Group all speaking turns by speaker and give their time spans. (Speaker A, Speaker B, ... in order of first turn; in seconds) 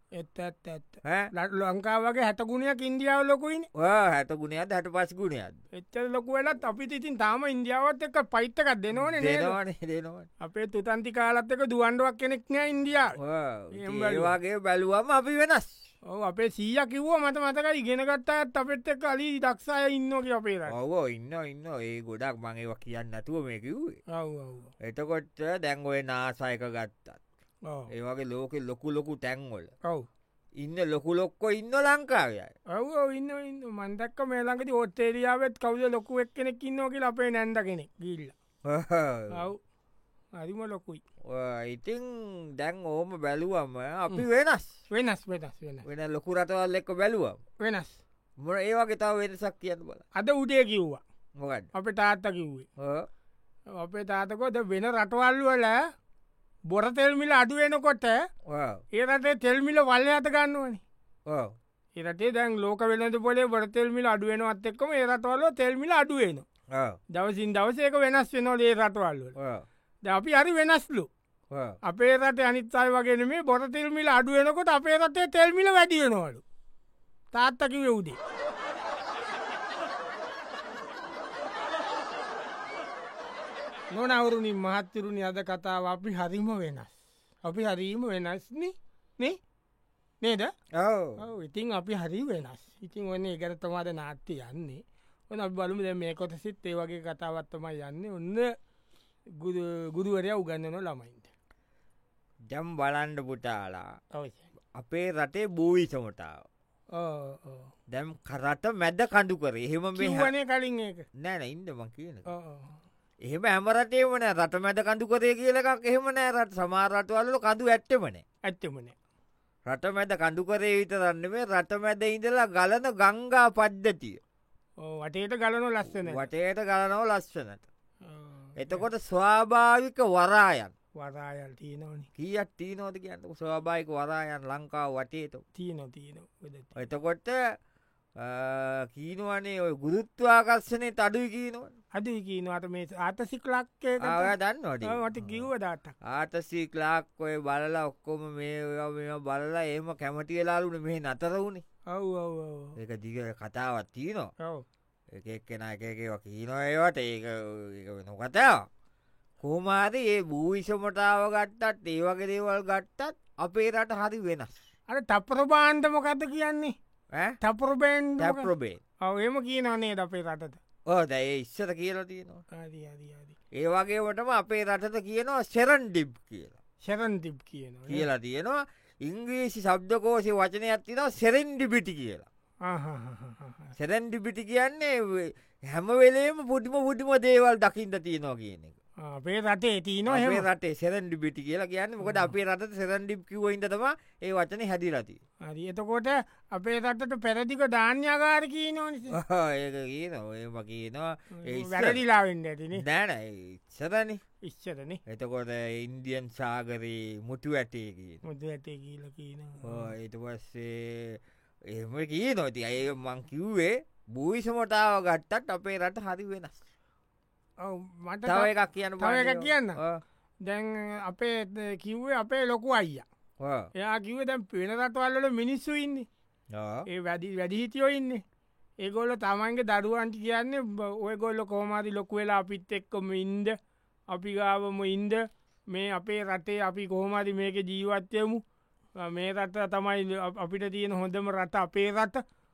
Speaker A: 0.1-3.7, 5.7-9.6, 10.4-13.2, 13.7-14.3, 16.1-20.7, 24.1-24.7, 32.7-38.3, 39.3-39.6, 40.3-41.0, 44.9-45.9, 47.6-48.0, 50.1-51.0, 51.7-52.7, 53.7-55.8, 56.7-58.2, 58.9-60.8, 62.0-66.4, 67.1-69.3, 70.0-71.1, 71.8-76.4, 77.3-78.2, 83.9-89.4, 90.2-90.5, 91.2-98.5, 99.4-101.3, 104.1-104.4, 107.0-107.7, 110.0-111.0, 112.3-112.7, 118.5-118.9, 124.8-126.2, 128.0-128.8, 131.0-132.1, 135.6-136.8, 141.9-144.3, 144.8-145.9, 151.9-152.8, 164.9-166.7, 167.4-168.5, 169.0-170.6, 172.5-173.3, 176.8-178.1, 182.6-183.7, 189.0-190.4, 192.0-192.3, 195.4-199.2, 201.3-202.8, 204.4-205.0, 208.2-209.9, 217.6-219.8, 220.4-223.0, 223.8-226.1, 226.9-228.2, 228.8-233.5, 234.1-238.4, 239.0-242.2
Speaker B: 1.0-1.3, 3.7-5.6, 8.9-10.3, 13.2-15.8, 20.7-24.0, 24.8-27.2, 27.9-29.7, 30.6-32.5, 38.6-39.5, 41.3-44.7, 45.8-47.4, 48.4-50.0, 51.4-51.7, 52.8-53.1, 58.5-58.8, 61.3-61.5, 66.7-67.0, 69.4-69.7, 71.5-71.8, 90.7-91.2, 102.5-103.9, 104.8-106.4, 107.9-110.3, 111.2-112.2, 113.2-118.2, 119.7-124.2, 125.9-127.6, 128.6-130.7, 132.2-135.4, 136.8-137.4, 138.2-141.7, 144.0-145.5, 146.0-151.6, 152.8-154.3, 155.1-158.7, 159.4-164.6, 168.2-168.8, 170.9-172.4, 173.6-176.6, 177.9-182.3, 183.8-188.7, 190.1-195.2, 199.1-202.0, 202.7-204.2, 205.1-208.2, 209.6-216.6, 218.2-220.0, 223.4-223.7, 226.5-226.8